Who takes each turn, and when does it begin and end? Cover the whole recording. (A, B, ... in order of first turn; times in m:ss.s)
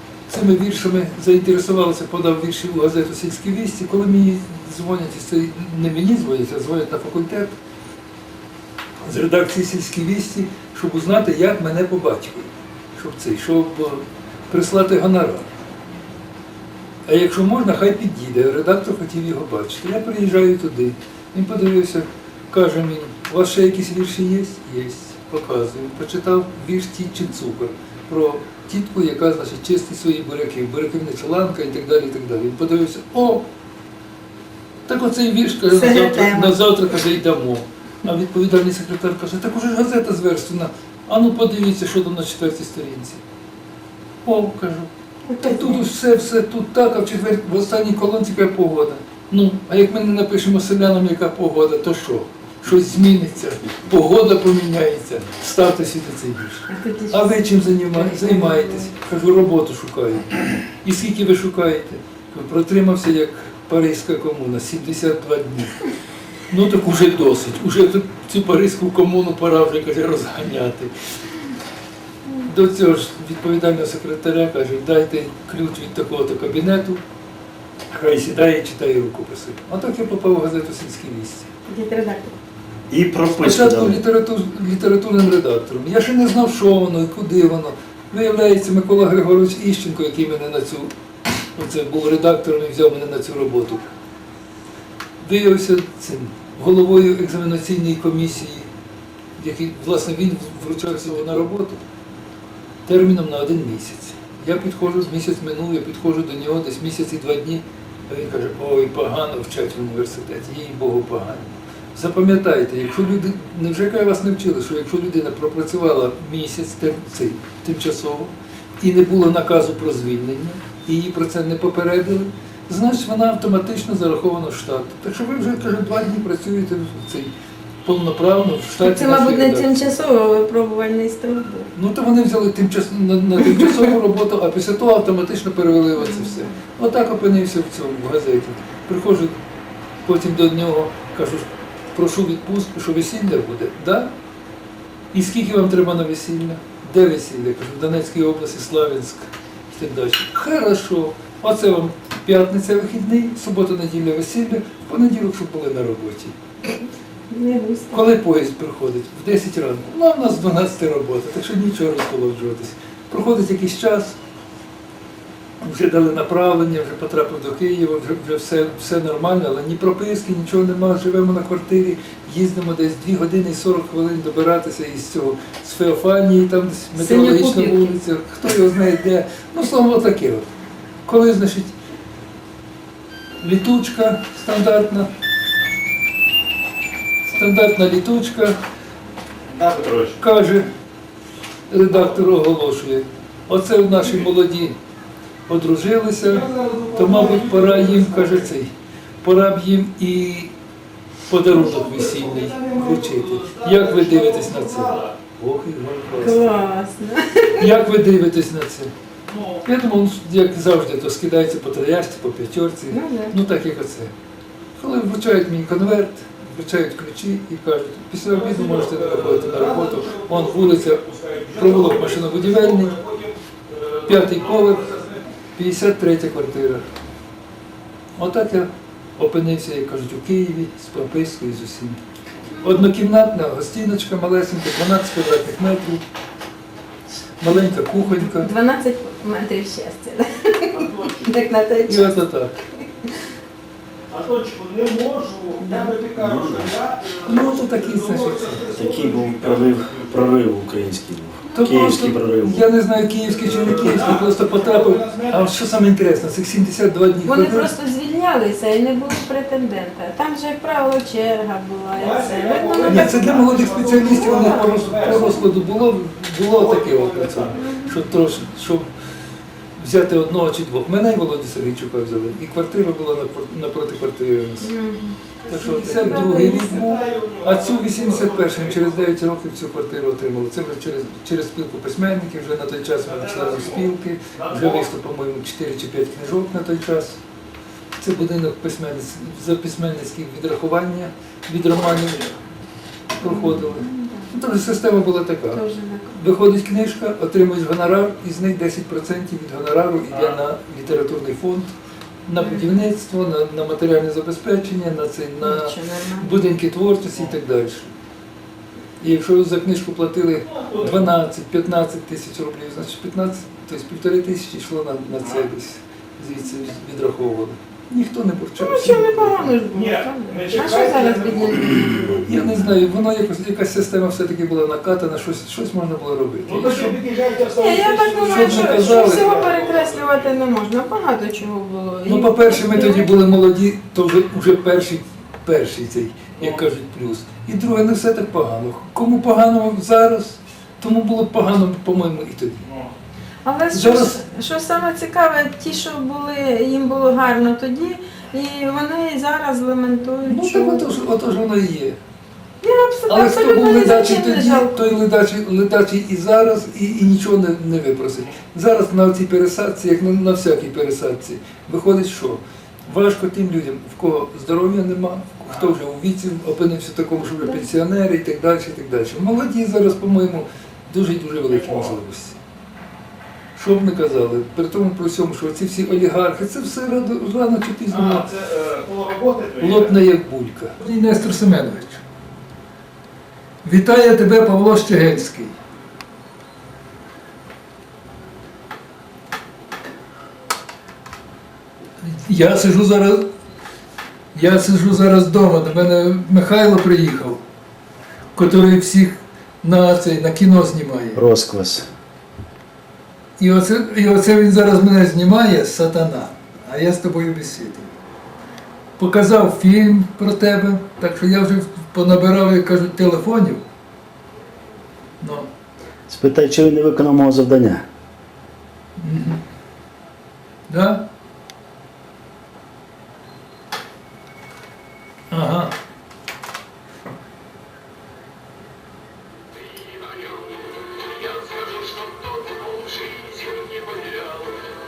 0:00.3-0:07.5 A
0:09.0-0:15.5 A
0:17.0-0:33.4 A
0:34.9-0:43.2 A
0:35.7-0:36.6 B
0:44.2-1:05.9 A
0:45.3-0:45.8 B
0:56.7-0:58.9 B
1:06.5-1:10.9 A
1:12.4-1:17.0 A
1:17.9-1:21.5 A
1:21.7-1:22.3 B
1:22.9-1:24.0 C
1:23.3-1:30.9 A
1:31.6-1:33.9 A
1:35.2-1:38.7 A
1:39.4-1:41.8 A
1:42.8-2:07.3 A
2:07.8-2:09.9 A
2:08.8-2:11.7 B
2:11.7-2:19.4 A
2:16.0-2:16.5 B
2:20.0-2:24.1 A
2:25.1-2:36.3 A
2:37.3-2:38.1 B
2:37.9-2:44.2 A
2:45.6-3:00.5 A
2:56.9-2:58.0 B
3:01.0-3:01.7 A
3:03.4-3:05.1 A
3:07.2-3:08.6 A
3:09.5-3:10.2 D
3:10.2-3:10.7 A
3:11.7-3:14.8 A
3:15.5-3:18.7 A
3:16.2-3:18.5 D
3:19.2-3:20.5 A
3:21.3-3:26.7 A
3:21.5-3:25.2 D
3:26.1-3:27.7 B
3:27.6-3:28.9 A
3:29.3-3:29.5 D
3:29.6-3:34.1 A
3:32.9-3:33.4 B
3:34.8-3:43.0 A
3:38.3-3:45.2 D
3:44.0-3:45.0 A
3:45.6-3:46.8 A
3:48.2-3:52.0 A
3:52.6-3:56.0 A
3:57.4-3:58.5 A
3:57.8-4:02.2 B
4:00.7-4:01.2 D
4:01.9-4:02.5 A
4:04.1-4:10.4 D
4:05.6-4:06.0 B
4:06.2-4:06.8 C
4:07.2-4:08.7 A
4:08.7-4:12.6 C
4:11.5-4:11.7 B
4:11.5-4:17.7 A
4:13.5-4:15.4 D
4:17.2-4:25.2 B
4:21.9-4:25.4 D
4:22.8-4:28.9 A
4:26.5-4:27.6 D
4:27.6-4:28.0 B
4:29.8-4:34.7 A
4:34.6-4:36.8 B
4:35.5-4:47.2 A
4:36.0-4:39.0 D
4:43.1-4:43.8 D
4:44.4-4:44.8 D
4:48.0-4:52.2 A
4:51.9-4:52.3 D
4:53.2-4:55.6 A
4:53.2-4:54.3 B
4:55.5-4:56.2 B
4:56.1-5:01.7 A
5:02.2-5:07.9 A
5:02.4-5:02.8 B
5:05.4-5:06.3 B
5:09.0-5:19.6 A
5:10.5-5:11.0 D
5:18.6-5:22.7 B
5:19.7-5:22.0 D
5:22.2-5:27.0 A
5:26.4-5:30.3 D
5:27.4-5:33.2 B
5:28.2-5:29.3 A
5:32.0-5:42.7 A
5:43.4-5:50.9 B
5:43.7-5:44.2 A
5:50.2-5:52.0 A
5:52.6-5:55.0 B
5:53.1-6:12.4 A
6:11.5-6:11.9 D
6:13.5-6:18.3 A
6:17.9-6:19.9 D
6:19.6-6:22.0 A
6:23.6-6:25.5 A
6:32.0-6:33.3 A
6:34.3-6:37.4 A
6:38.3-6:41.2 A
6:41.1-6:41.8 C
6:43.4-6:47.9 A
6:49.0-6:53.6 A
6:55.2-6:55.5 A
6:56.1-6:57.8 C
6:59.0-6:59.4 A
7:00.7-7:01.1 A
7:05.3-7:05.7 A